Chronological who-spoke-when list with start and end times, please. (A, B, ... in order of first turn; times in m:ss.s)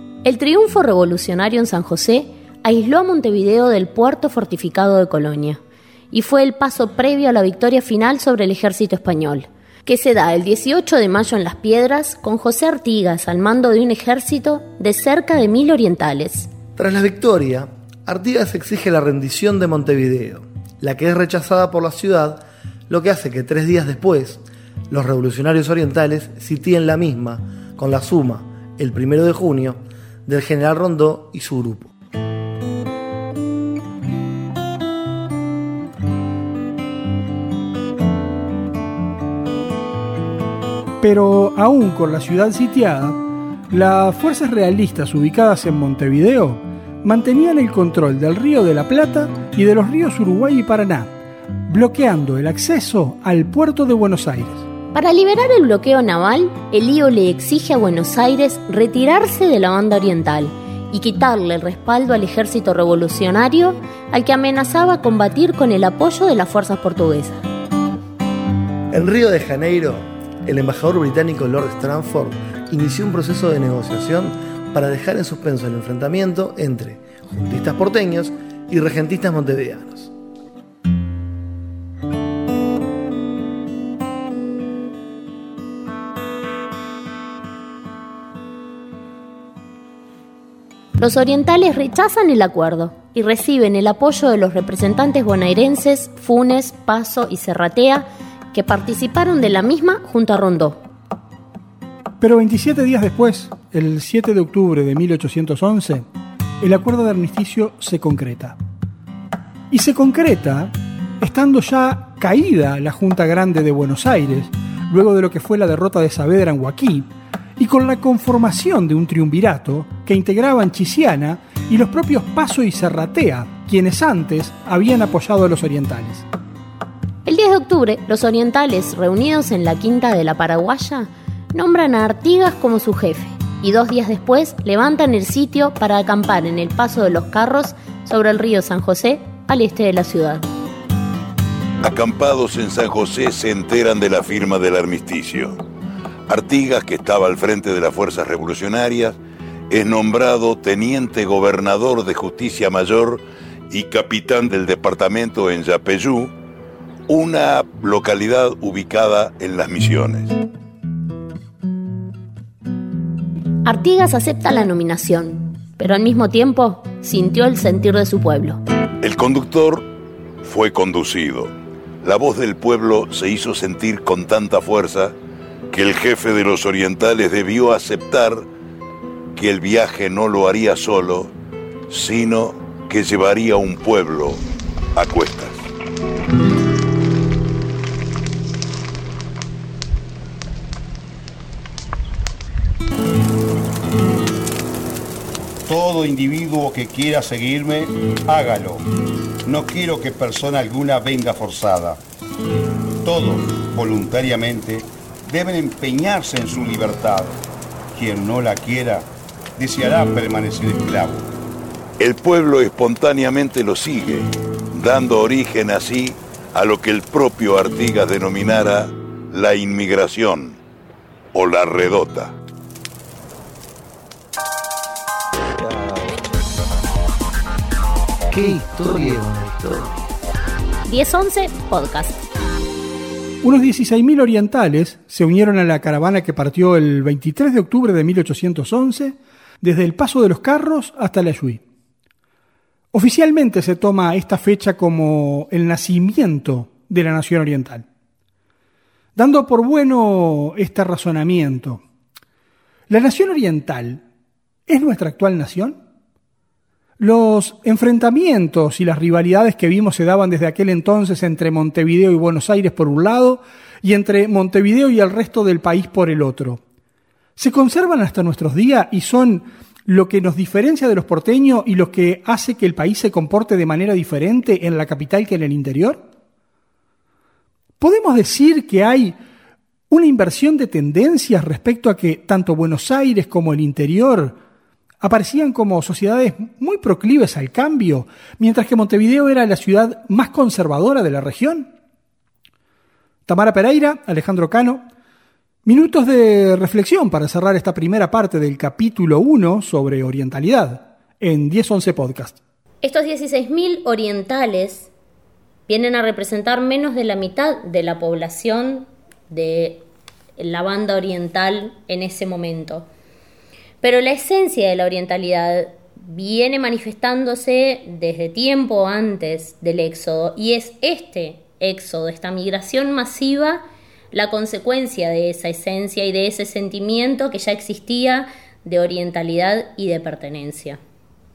0:00.2-0:16.5 A
0:16.8-0:31.9 B
0:41.0-0:43.2 C
0:43.7-0:54.7 C
0:54.9-1:07.4 A
1:08.9-1:20.1 B
1:31.0-1:40.8 A
1:42.2-1:46.0 C
1:46.6-1:48.6 C
1:49.7-2:06.2 C
2:07.3-2:20.5 A
2:21.8-2:25.6 D
2:26.3-2:29.2 D
2:29.7-2:36.3 D
2:37.1-2:40.4 D
2:43.6-2:48.6 A
2:49.0-2:49.9 D
2:50.4-2:55.1 D
2:55.7-2:58.5 D
2:59.4-3:01.3 D
3:01.9-3:04.4 D
3:05.0-3:05.7 D
3:15.7-3:18.9 E
3:19.4-3:22.0 E
3:23.0-3:27.4 E
3:27.9-3:31.3 E
3:32.0-3:40.6 D
3:41.3-3:42.3 D
3:45.6-3:46.2 E
3:48.3-3:50.0 B
3:50.9-3:52.3 A
3:53.4-4:01.6 C
4:02.9-4:07.9 C
4:09.2-4:11.8 C
4:12.9-4:14.0 C
4:14.7-4:15.8 C
4:17.0-4:26.6 C
4:27.4-4:36.0 C
4:37.8-4:39.2 C
4:39.9-4:44.4 C
4:45.0-4:51.7 C
4:53.3-4:54.8 C
4:55.6-5:02.4 C
5:02.8-5:04.9 A
5:05.7-5:09.9 A
5:10.4-5:12.9 A
5:13.8-5:30.8 A